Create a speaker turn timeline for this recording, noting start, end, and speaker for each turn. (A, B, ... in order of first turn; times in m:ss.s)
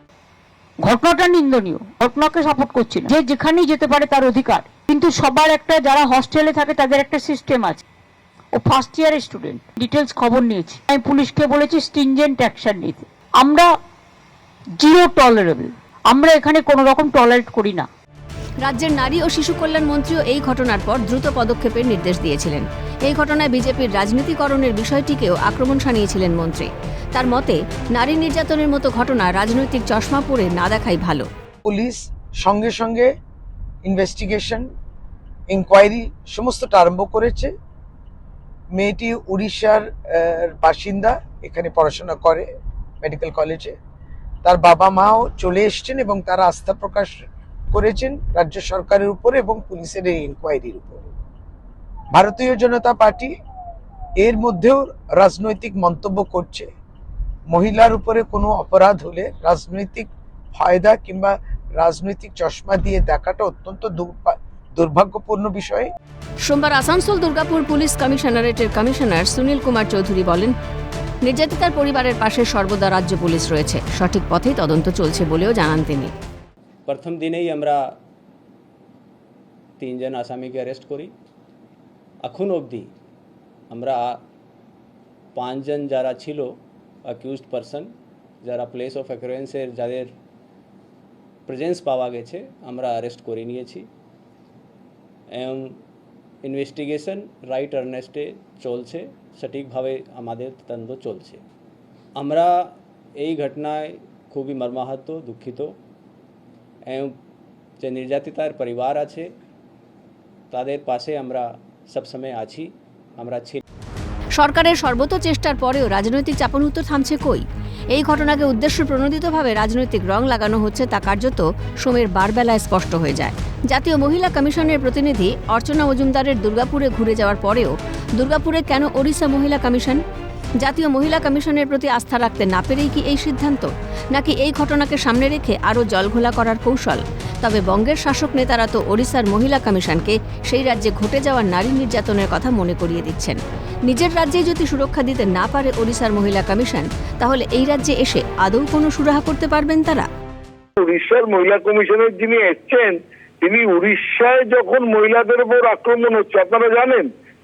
0:00.8-0:07.8 A
0:08.5-0:13.7 A
0:14.8-0:17.9 A
0:18.6-0:31.3 B
0:31.6-0:33.1 C
0:33.8-0:34.7 C
0:35.5-0:37.5 C
0:38.7-0:42.5 C
0:43.0-0:43.8 C
0:44.4-0:51.1 C
0:52.1-0:53.3 C
0:54.2-0:56.7 C
0:57.5-1:05.9 C
1:06.4-1:10.5 B
1:11.2-1:16.1 B
1:16.9-1:17.8 D
1:19.8-1:21.1 D
1:22.2-1:22.9 D
1:23.7-1:24.2 D
1:25.3-1:26.5 D
1:27.1-1:27.9 D
1:28.4-1:30.1 D
1:31.5-1:33.8 D
1:35.3-1:35.7 D
1:36.4-1:41.4 D
1:42.2-1:42.6 D
1:43.2-1:45.7 D
1:47.8-1:49.2 D
1:50.5-1:53.6 D
1:54.3-2:10.0 B
2:10.6-2:30.1 B
2:30.8-2:37.1 E